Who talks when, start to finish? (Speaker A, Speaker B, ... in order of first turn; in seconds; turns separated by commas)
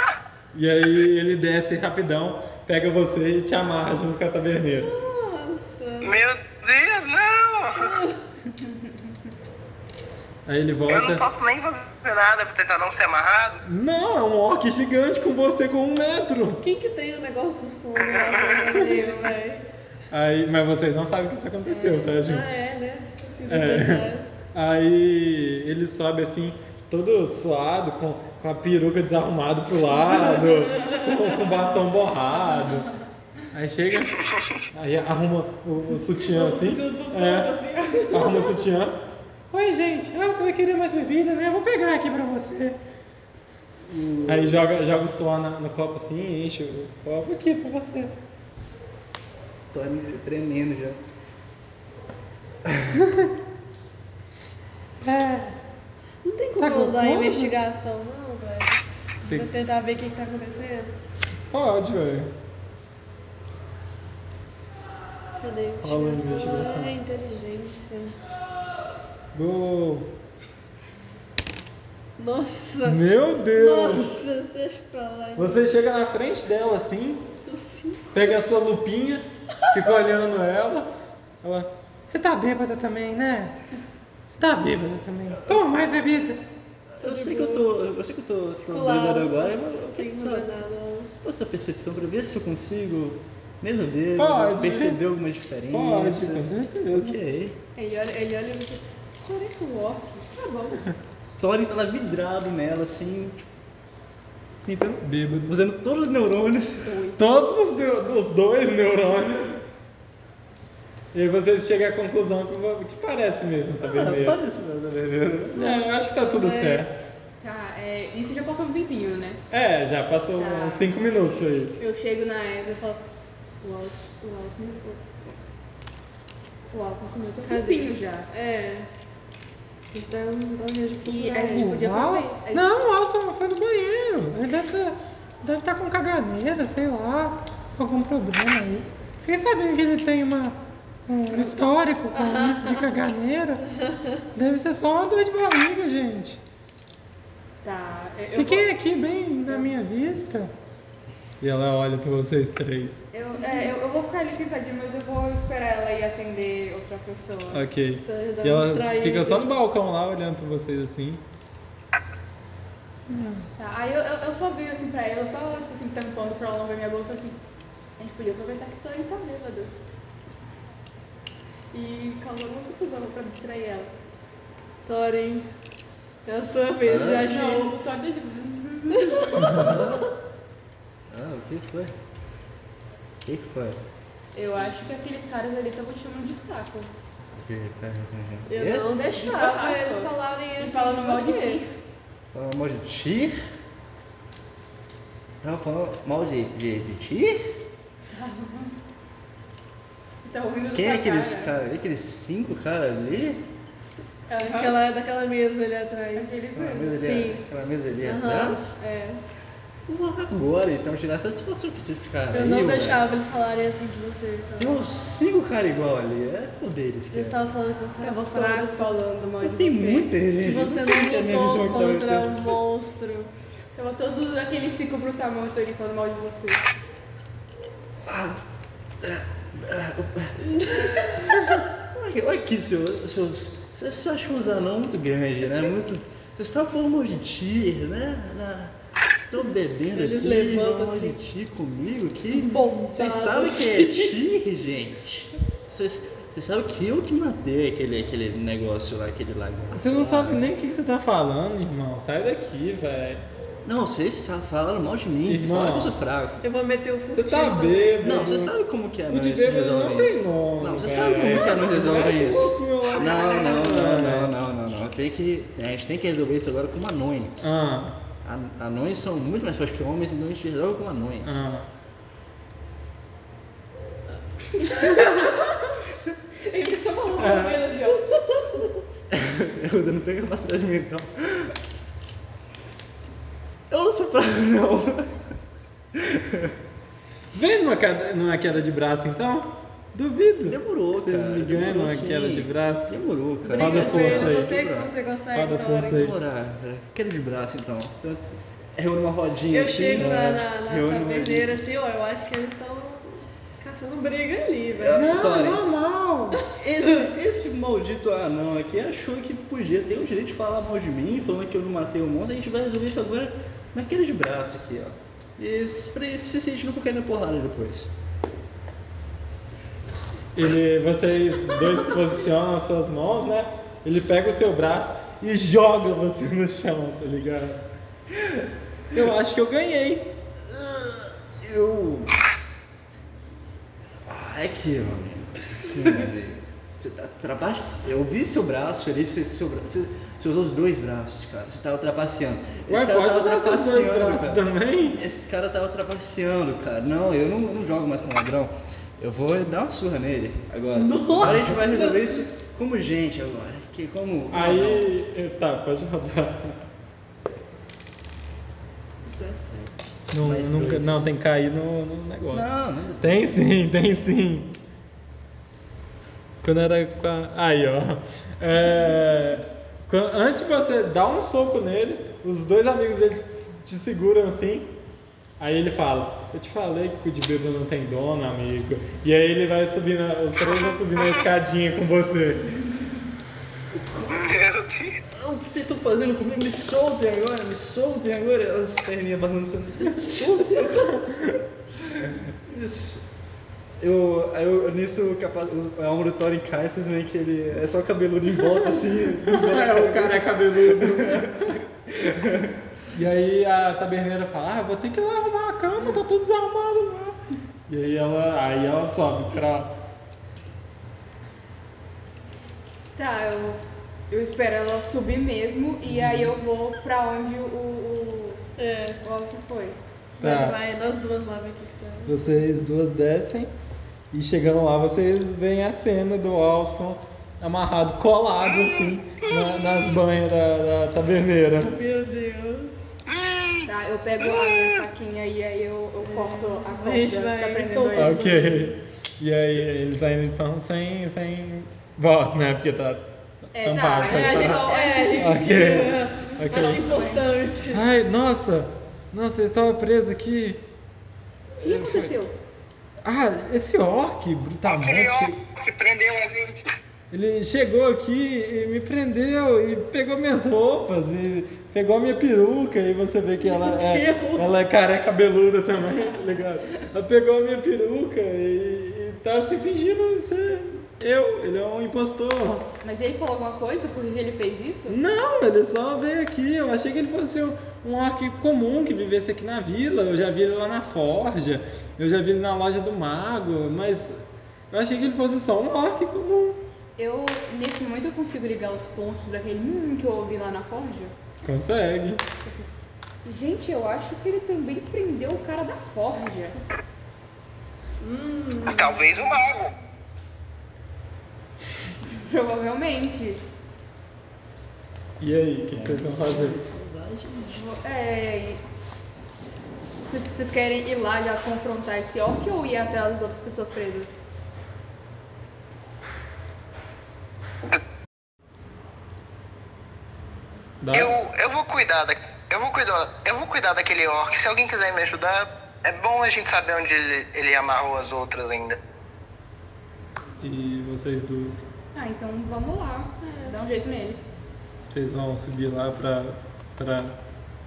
Speaker A: 0.5-4.9, Speaker B: 4.8-6.2, Speaker C: 6.0-7.9, Speaker B: 7.8-8.2, Speaker A: 10.5-11.2, Speaker C: 10.9-13.6, Speaker A: 13.6-16.6, Speaker B: 16.6-19.7, Speaker C: 18.2-18.5, Speaker D: 18.7-19.2, Speaker A: 20.1-22.5, Speaker D: 21.7-22.1, Speaker B: 21.8-24.3, Speaker A: 23.5-32.9, Speaker B: 29.9-31.6, Speaker D: 32.3-33.0, Speaker A: 33.5-37.6, Speaker B: 36.2-38.7, Speaker A: 38.1-39.0, Speaker A: 39.5-42.8, Speaker E: 43.9-44.6, Speaker A: 44.3-48.1, Speaker E: 49.7-51.1, Speaker E: 52.6-53.0, Speaker A: 53.0-53.3, Speaker A: 55.0-55.6, Speaker B: 56.2-60.9, Speaker A: 56.6-57.5, Speaker A: 59.2-59.5, Speaker A: 61.5-62.3, Speaker B: 65.4-68.2, Speaker A: 65.8-67.0, Speaker A: 69.3-70.1, Speaker B: 72.2-75.6, Speaker A: 72.8-74.2, Speaker A: 75.4-77.3, Speaker B: 77.5-78.2, Speaker A: 78.1-80.9, Speaker A: 81.4-83.5, Speaker A: 84.3-86.4, Speaker E: 87.0-90.5, Speaker B: 87.0-87.7, Speaker B: 88.6-91.1, Speaker E: 91.2-97.6, Speaker A: 94.2-95.0, Speaker A: 95.7-97.2, Speaker D: 97.8-100.8, Speaker E: 101.4-103.5, Speaker E: 104.7-106.9, Speaker A: 105.0-105.5, Speaker D: 106.8-107.4, Speaker A: 107.2-109.6, Speaker A: 111.1-114.4, Speaker E: 113.8-115.7, Speaker A: 115.5-117.1, Speaker B: 115.6-116.8, Speaker D: 117.4-119.4, Speaker A: 119.5-121.8, Speaker D: 120.4-120.9, Speaker D: 121.8-123.0, Speaker D: 123.6-125.4, Speaker D: 126.7-128.3, Speaker B: 127.4-128.9, Speaker B: 129.9-131.8, Speaker D: 131.1-132.8, Speaker A: 131.5-143.7, Speaker B: 142.1-142.9, Speaker B: 143.8-144.2, Speaker A: 144.3-146.4, Speaker D: 147.6-148.7, Speaker A: 148.3-150.5, Speaker A: 151.4-153.0, Speaker D: 153.1-157.7, Speaker B: 153.4-153.7, Speaker A: 157.5-161.2, Speaker B: 158.1-159.5, Speaker A: 163.1-163.4, Speaker D: 163.6-167.4, Speaker D: 168.0-169.7, Speaker D: 171.7-173.9, Speaker B: 174.8-175.5, Speaker B: 176.2-177.8, Speaker E: 176.8-177.4, Speaker D: 177.2-179.8, Speaker B: 178.9-179.6, Speaker A: 179.4-179.8, Speaker E: 179.5-180.1, Speaker E: 181.1-182.0, Speaker E: 183.2-183.8, Speaker D: 184.3-186.9, Speaker E: 187.3-188.9, Speaker B: 188.5-191.6, Speaker D: 188.9-191.7, Speaker E: 192.3-193.4, Speaker E: 195.4-197.6, Speaker D: 198.1-198.8, Speaker D: 200.2-201.5, Speaker E: 200.7-203.4, Speaker D: 204.3-204.8, Speaker B: 204.4-206.3, Speaker D: 206.2-207.1, Speaker E: 206.5-208.8, Speaker B: 207.0-207.4, Speaker B: 208.0-209.2, Speaker E: 209.9-213.0, Speaker B: 212.3-214.8, Speaker E: 214.6-217.4, Speaker B: 217.1-219.0, Speaker D: 218.0-220.2, Speaker E: 219.4-222.6, Speaker B: 220.4-223.3, Speaker D: 223.8-226.6, Speaker E: 228.0-228.4, Speaker E: 229.0-250.5, Speaker B: 230.4-231.6, Speaker B: 239.9-241.2, Speaker B: 242.3-244.2, Speaker A: 249.7-253.2, Speaker E: 253.6-256.4, Speaker A: 255.2-255.9, Speaker B: 256.4-258.1, Speaker A: 257.1-258.6, Speaker E: 258.0-267.5, Speaker A: 259.1-264.3, Speaker A: 267.4-268.0, Speaker E: 268.2-271.4, Speaker A: 271.2-271.7, Speaker D: 274.6-275.5, Speaker B: 274.6-275.2, Speaker D: 276.1-278.1, Speaker A: 277.2-277.6, Speaker B: 277.8-278.8, Speaker E: 279.1-281.6, Speaker E: 283.7-285.3, Speaker E: 285.9-286.6, Speaker A: 287.3-292.9, Speaker E: 290.4-294.9, Speaker B: 293.5-296.1, Speaker A: 293.5-294.5, Speaker A: 295.3-296.1, Speaker E: 295.9-301.6, Speaker B: 299.5-305.0, Speaker E: 304.7-305.6, Speaker A: 304.9-306.4, Speaker E: 306.6-317.9, Speaker A: 320.3-327.6, Speaker A: 328.9-330.1, Speaker E: 330.4-332.3, Speaker E: 334.1-354.9, Speaker A: 342.7-345.0, Speaker B: 350.7-352.1, Speaker A: 351.2-351.5, Speaker A: 354.3-356.6, Speaker B: 359.1-359.8, Speaker A: 360.1-364.5, Speaker E: 360.2-361.1, Speaker E: 362.3-363.4, Speaker A: 366.4-374.7, Speaker A: 375.4-382.6, Speaker E: 383.7-384.5, Speaker C: 384.2-385.0, Speaker E: 385.0-391.1, Speaker E: 391.9-393.1, Speaker E: 393.8-402.6, Speaker A: 399.2-401.6, Speaker A: 402.9-407.2, Speaker A: 407.7-409.7, Speaker D: 412.9-418.4, Speaker A: 415.9-416.4, Speaker B: 418.6-419.0, Speaker D: 419.0-419.8, Speaker B: 420.2-422.6, Speaker A: 420.2-420.6, Speaker A: 422.1-423.5, Speaker A: 424.1-431.8, Speaker C: 428.5-428.8, Speaker B: 431.6-432.9, Speaker C: 433.1-433.7, Speaker D: 433.7-438.2, Speaker C: 434.2-434.8, Speaker B: 436.0-438.8, Speaker A: 437.9-446.9, Speaker D: 443.5-447.4, Speaker B: 444.0-447.9, Speaker A: 447.7-450.6, Speaker A: 451.6-452.1, Speaker D: 451.6-452.4, Speaker A: 453.0-455.4, Speaker C: 454.6-456.6, Speaker A: 457.1-472.7, Speaker B: 463.4-464.6, Speaker D: 472.8-475.0, Speaker A: 474.9-486.6, Speaker D: 487.0-491.1, Speaker A: 491.4-492.2, Speaker D: 493.2-496.6, Speaker B: 498.0-499.2, Speaker C: 498.6-499.7, Speaker D: 502.1-503.4, Speaker A: 505.2-506.6, Speaker E: 505.7-507.7, Speaker D: 507.5-508.6, Speaker D: 510.1-514.2, Speaker A: 520.8-521.1, Speaker C: 520.9-528.8, Speaker A: 530.4-531.6, Speaker D: 532.0-534.2, Speaker B: 533.2-533.6, Speaker A: 534.9-537.2